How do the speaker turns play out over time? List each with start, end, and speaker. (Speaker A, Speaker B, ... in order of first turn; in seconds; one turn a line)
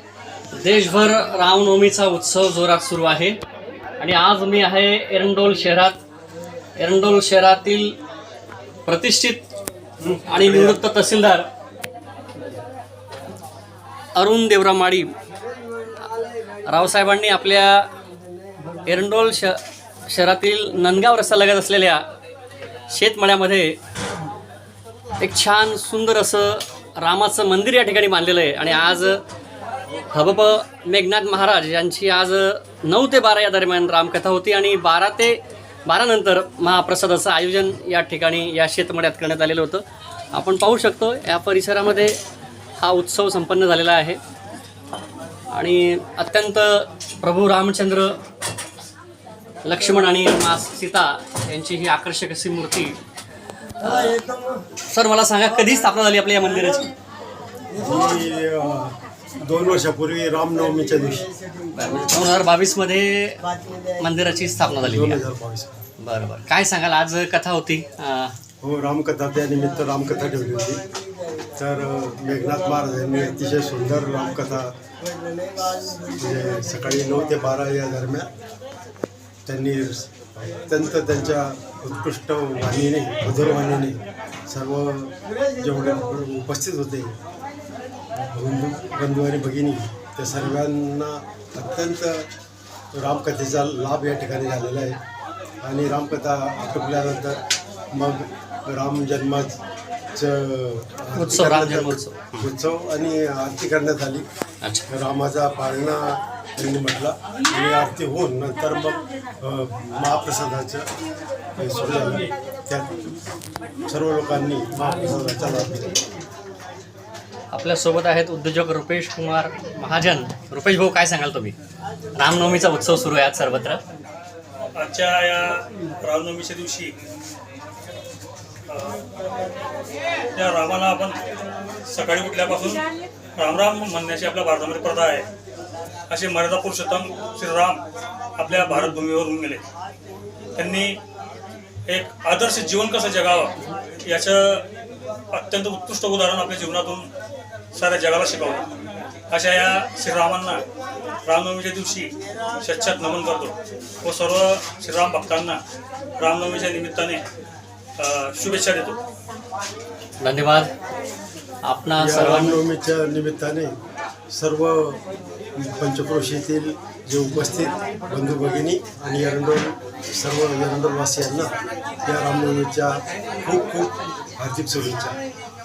Speaker A: 0.5-3.4
Speaker A: 4.0-6.0
Speaker A: 6.8-8.0
Speaker A: 8.9-9.5
Speaker A: 10.2-11.5
Speaker A: 14.2-15.1
Speaker A: 16.6-17.9
Speaker A: 18.8-22.0
Speaker A: 22.9-23.8
Speaker A: 25.2-29.2
Speaker A: 30.1-42.2
Speaker A: 42.8-44.2
Speaker A: 45.5-48.2
Speaker A: 49.6-53.0
Speaker A: 53.8-54.2
Speaker A: 54.8-56.9
Speaker B: 57.7-61.3
Speaker A: 61.7-65.2
Speaker B: 64.7-65.8
Speaker A: 66.0-68.3
Speaker B: 68.6-70.8
Speaker B: 71.6-74.7
Speaker B: 75.6-78.3
Speaker B: 79.5-87.2
Speaker B: 88.2-92.3
Speaker B: 92.9-95.0
Speaker B: 95.6-97.4
Speaker B: 97.9-99.5
Speaker B: 100.2-104.3
Speaker A: 101.2-102.5
Speaker B: 104.9-110.9
Speaker B: 111.6-113.0
Speaker B: 113.9-116.0
Speaker A: 117.5-121.6
Speaker A: 122.2-123.8
Speaker C: 124.8-127.0
Speaker C: 128.7-129.0
Speaker C: 130.3-131.2
Speaker C: 131.9-135.3
Speaker C: 136.1-137.8
Speaker C: 138.4-139.6
Speaker C: 140.6-141.0
Speaker C: 141.9-144.7
Speaker C: 145.3-147.1
Speaker C: 147.7-148.7
Speaker C: 149.3-150.7
Speaker C: 151.3-155.6
Speaker C: 156.2-157.2
Speaker C: 158.0-159.0
Speaker A: 160.2-160.7
Speaker A: 161.7-162.6
Speaker B: 162.0-163.7
Speaker B: 164.3-165.0
Speaker B: 165.6-171.5
Speaker B: 172.1-175.2